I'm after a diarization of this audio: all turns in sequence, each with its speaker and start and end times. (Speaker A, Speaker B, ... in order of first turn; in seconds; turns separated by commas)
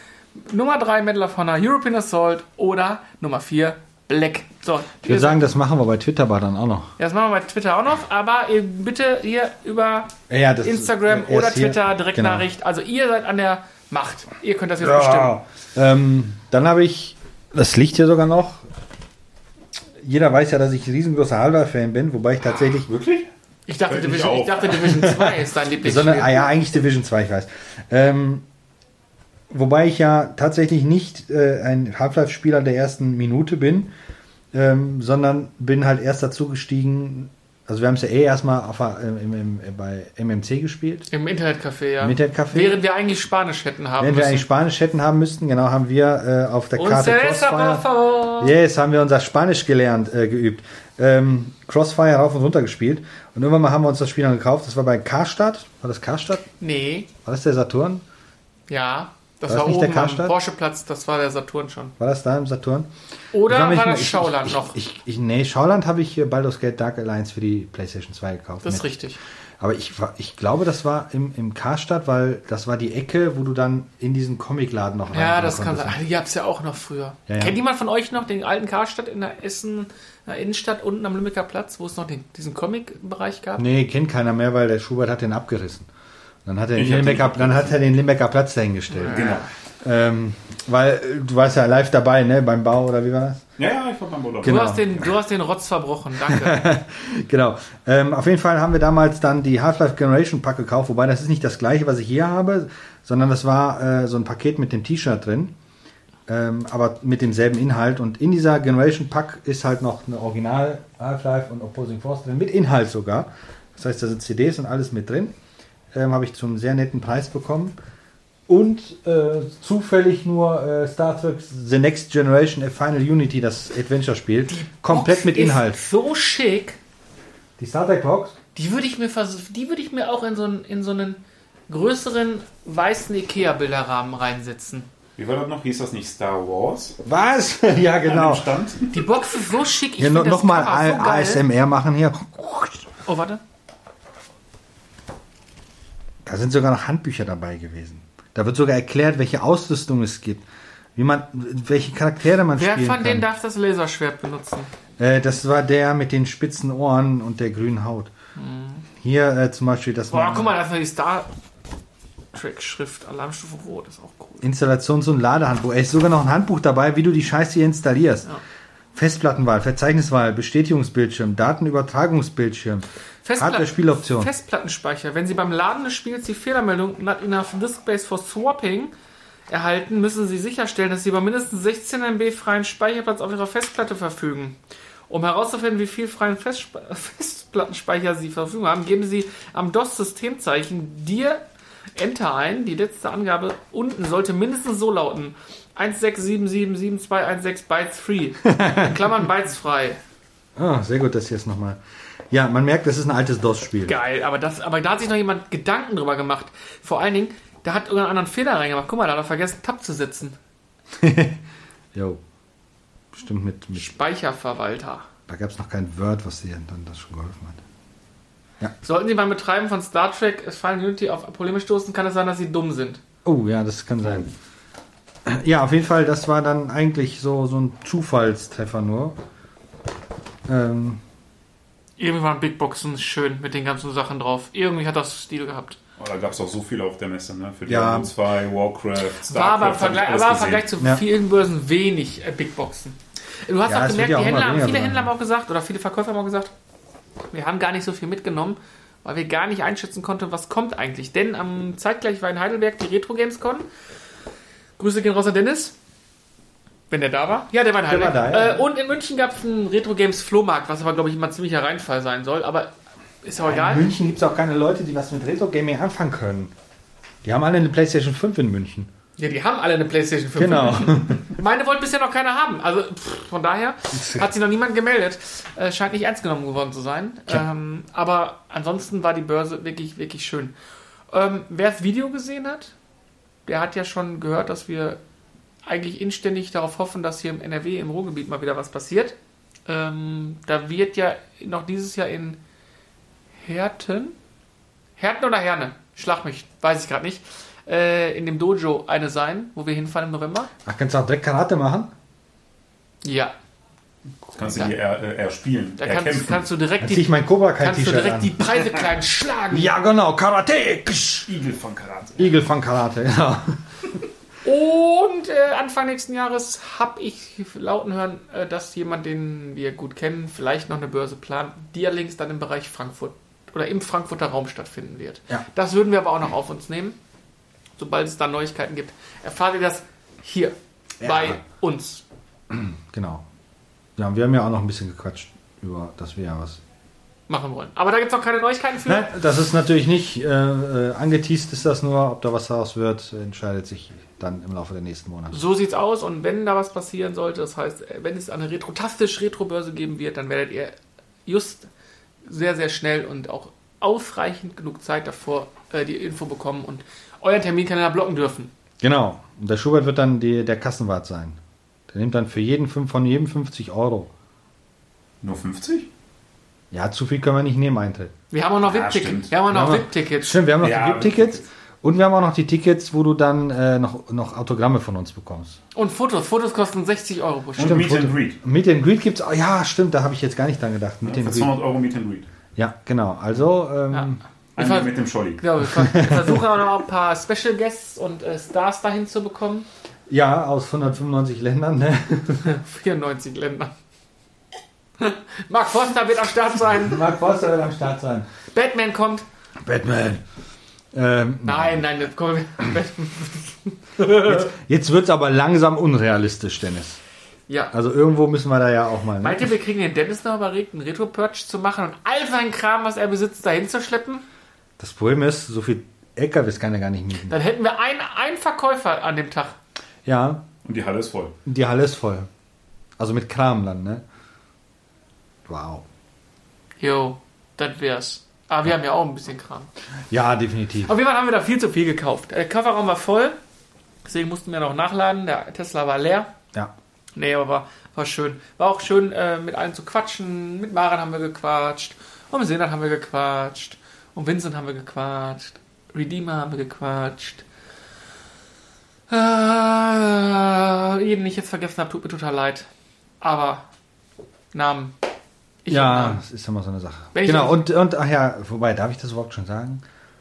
Speaker A: 0.4-5.4, Speaker B: 5.0-6.9, Speaker A: 7.0-15.4, Speaker B: 10.3-12.5, Speaker B: 14.8-18.7, Speaker B: 20.0-23.0, Speaker C: 22.9-23.3, Speaker A: 23.7-26.5, Speaker C: 23.9-24.8, Speaker B: 24.9-28.4, Speaker B: 29.5-33.9, Speaker B: 34.5-41.1, Speaker A: 41.1-44.5, Speaker B: 42.0-42.8, Speaker B: 44.0-47.8, Speaker A: 46.8-48.5, Speaker B: 48.4-56.5, Speaker A: 56.6-57.1, Speaker B: 57.2-58.0, Speaker A: 58.7-61.9, Speaker B: 59.5-60.4, Speaker B: 62.0-62.9, Speaker A: 63.3-64.8, Speaker B: 63.4-68.9, Speaker A: 68.6-69.2, Speaker B: 69.6-76.0, Speaker A: 75.1-83.7, Speaker B: 77.3-77.6, Speaker B: 83.6-85.9, Speaker B: 86.5-93.5, Speaker C: 86.8-87.8, Speaker A: 88.9-89.5, Speaker C: 89.1-89.5, Speaker C: 93.6-94.7, Speaker B: 94.4-95.1, Speaker A: 94.4-96.6, Speaker B: 96.3-105.5, Speaker B: 106.3-115.3, Speaker B: 115.9-117.8, Speaker B: 118.5-125.8, Speaker A: 124.5-126.8, Speaker B: 127.6-128.4, Speaker A: 128.6-134.9, Speaker C: 135.2-137.0, Speaker B: 137.1-138.5, Speaker C: 138.0-139.0, Speaker A: 138.9-141.4, Speaker B: 140.0-142.9, Speaker A: 143.1-143.4, Speaker B: 146.2-153.3, Speaker A: 152.5-154.7, Speaker B: 155.0-158.1, Speaker A: 158.4-158.8, Speaker B: 159.0-160.6, Speaker A: 160.1-161.3, Speaker A: 162.3-164.4, Speaker B: 164.4-168.3, Speaker B: 168.9-174.3, Speaker A: 173.2-178.9, Speaker A: 179.5-184.6, Speaker A: 185.1-191.4, Speaker A: 192.0-200.0, Speaker B: 198.5-198.9, Speaker B: 200.6-201.8, Speaker B: 202.3-204.0, Speaker A: 203.8-210.4, Speaker B: 210.9-211.4, Speaker B: 211.9-212.2, Speaker B: 213.1-213.9, Speaker A: 213.7-215.1, Speaker B: 215.3-217.6, Speaker A: 218.8-223.0, Speaker B: 223.2-224.3, Speaker B: 225.3-229.2, Speaker B: 230.5-231.0, Speaker A: 232.0-235.8, Speaker C: 236.0-240.7, Speaker B: 237.7-238.1, Speaker A: 239.2-246.5, Speaker B: 243.7-245.1, Speaker A: 247.3-253.7, Speaker A: 254.8-255.8, Speaker A: 256.9-262.7, Speaker B: 257.9-258.6, Speaker A: 263.2-263.9, Speaker B: 263.4-266.5, Speaker B: 267.2-268.9, Speaker A: 269.2-280.5, Speaker B: 270.4-271.3, Speaker B: 273.9-274.3, Speaker A: 281.1-282.8, Speaker A: 283.5-285.0, Speaker A: 285.6-292.4, Speaker A: 293.4-294.2, Speaker A: 295.0-300.5, Speaker B: 300.6-301.9, Speaker A: 303.0-303.3, Speaker C: 304.4-306.5, Speaker A: 304.5-304.7, Speaker A: 305.8-309.7, Speaker B: 306.8-308.4, Speaker B: 309.5-311.3, Speaker C: 311.3-312.4, Speaker B: 312.2-313.6, Speaker A: 314.4-327.0, Speaker A: 327.8-332.0, Speaker B: 331.0-331.4, Speaker B: 332.5-333.2, Speaker B: 334.0-336.6, Speaker A: 337.3-339.1, Speaker B: 338.9-345.4, Speaker A: 345.3-351.7, Speaker A: 352.2-358.5, Speaker B: 358.8-361.4, Speaker B: 361.9-364.1, Speaker C: 365.2-365.9, Speaker B: 366.7-368.1, Speaker A: 368.3-370.5, Speaker C: 368.6-369.3, Speaker B: 369.4-375.6, Speaker C: 370.6-371.4, Speaker A: 375.7-377.9, Speaker C: 377.6-378.4, Speaker B: 377.6-381.6, Speaker C: 381.0-382.3, Speaker B: 382.6-384.2, Speaker A: 383.9-389.7, Speaker C: 384.6-385.4, Speaker B: 385.7-386.4, Speaker B: 390.1-392.6, Speaker A: 392.4-393.7, Speaker A: 395.0-397.1, Speaker B: 396.7-398.3, Speaker A: 398.5-399.2, Speaker B: 399.6-400.2, Speaker B: 400.9-401.9, Speaker A: 401.4-404.5, Speaker B: 404.0-407.0, Speaker A: 407.5-407.7, Speaker B: 407.7-409.5, Speaker A: 409.2-414.2, Speaker B: 414.8-417.4, Speaker A: 417.3-419.6, Speaker B: 420.1-420.4, Speaker C: 420.6-421.4, Speaker B: 421.5-422.3, Speaker B: 423.0-424.0, Speaker B: 425.5-425.9, Speaker A: 426.8-429.7, Speaker B: 430.1-430.9, Speaker A: 430.9-433.4, Speaker A: 434.1-436.3, Speaker A: 437.2-447.4, Speaker A: 449.1-452.7, Speaker A: 453.2-453.7, Speaker A: 454.5-454.9, Speaker A: 455.6-456.2, Speaker B: 455.7-459.8, Speaker A: 457.1-457.6